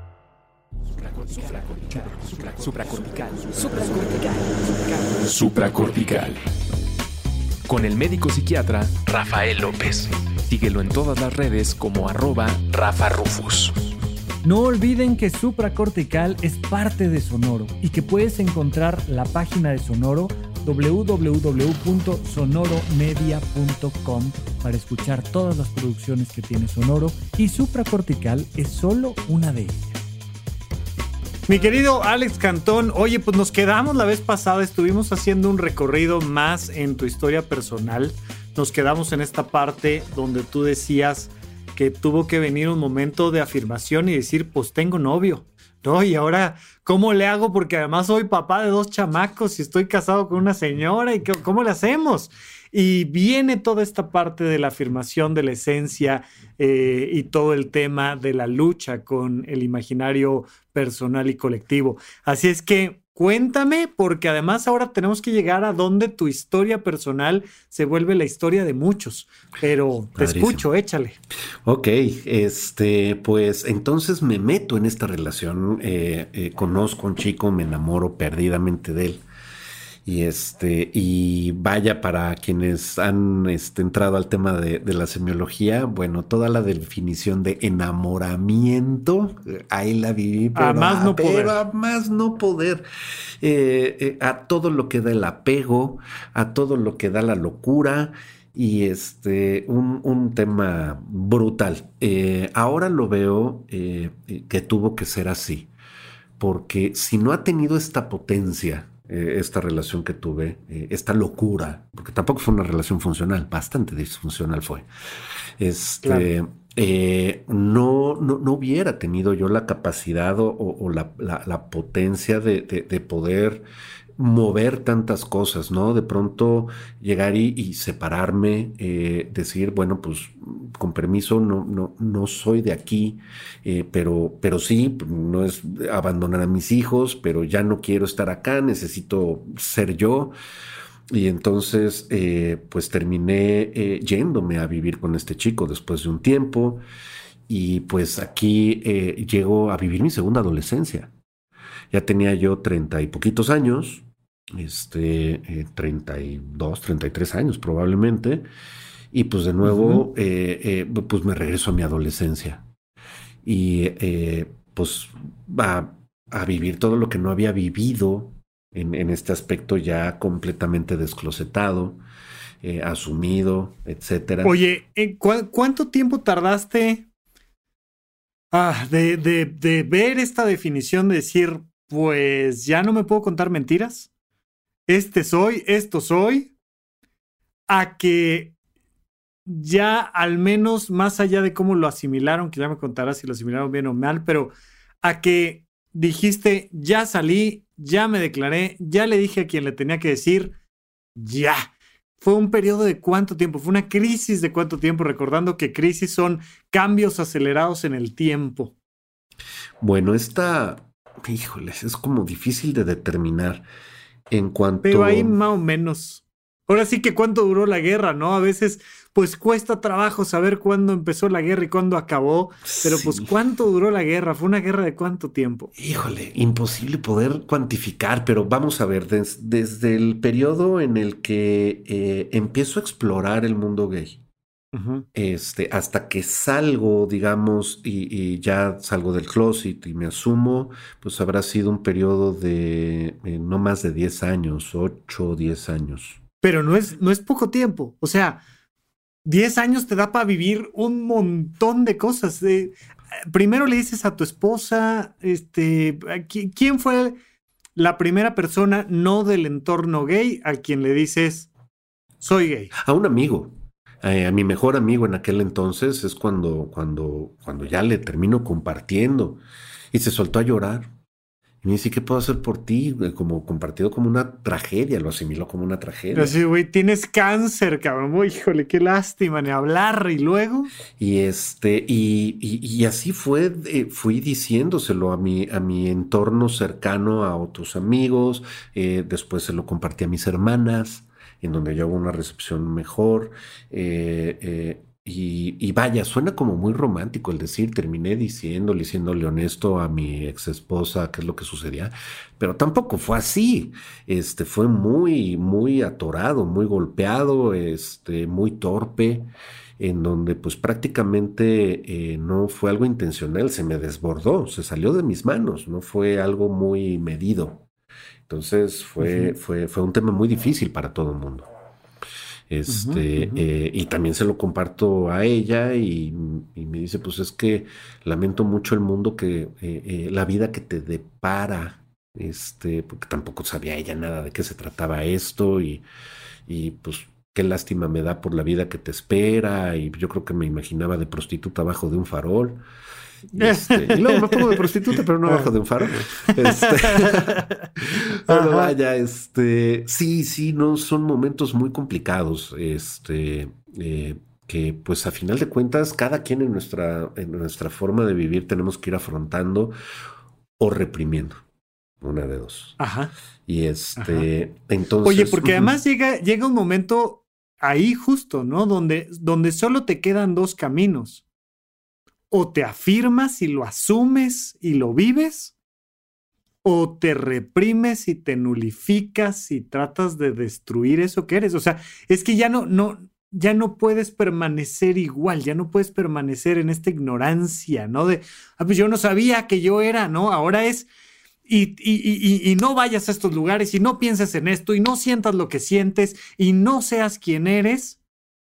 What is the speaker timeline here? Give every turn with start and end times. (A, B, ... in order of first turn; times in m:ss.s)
0:01.0-0:06.4 A
0:07.7-0:13.9 A
0:14.4-0:29.9 B
0:31.5-1:11.2 B
1:10.2-1:10.7 C
1:11.6-1:19.2 C
1:20.0-1:32.9 C
1:30.6-1:31.6 B
1:33.4-1:45.7 C
1:46.4-1:54.9 C
1:55.6-2:03.7 C
1:56.0-1:56.3 B
2:04.2-2:20.4 C
2:21.1-2:26.8 C
2:27.5-2:31.1 C
2:31.9-2:38.5 C
2:39.1-2:42.6 C
2:39.6-2:40.0 B
2:43.4-2:52.0 C
2:52.6-2:54.6 C
2:54.4-2:57.1 B
2:58.5-3:04.1 B
3:04.9-3:06.5 B
3:07.7-3:08.5 B
3:09.5-3:20.6 B
3:21.2-3:28.7 B
3:29.8-3:33.7 C
3:34.3-3:35.4 C
3:34.8-3:45.7 B
3:42.7-3:43.3 C
3:45.8-3:54.2 C
3:54.7-3:55.1 B
3:55.1-4:06.2 C
4:06.4-4:08.4 B
4:09.2-4:12.8 B
4:13.3-4:17.2 B
4:17.8-4:21.5 B
4:22.2-4:22.7 B
4:22.7-4:29.4 C
4:29.9-4:30.9 C
4:31.6-4:36.4 C
4:36.1-4:40.7 B
4:41.0-5:17.6 C
5:18.3-5:21.5 C
5:19.0-5:19.3 B
5:22.5-5:35.8 C
5:22.7-5:23.4 B
5:36.5-5:42.6 C
5:43.3-5:59.8 C
5:43.4-5:44.6 B
5:45.2-5:45.5 B
5:46.0-5:47.6 B
5:48.3-5:48.7 B
6:00.6-6:01.4 C
6:02.0-6:02.8 C
6:02.8-6:03.1 B
6:03.5-6:05.8 C
6:04.0-6:04.3 B
6:05.0-6:11.2 B
6:12.3-6:15.5 B
6:16.6-6:30.9 B
6:31.5-6:38.0 B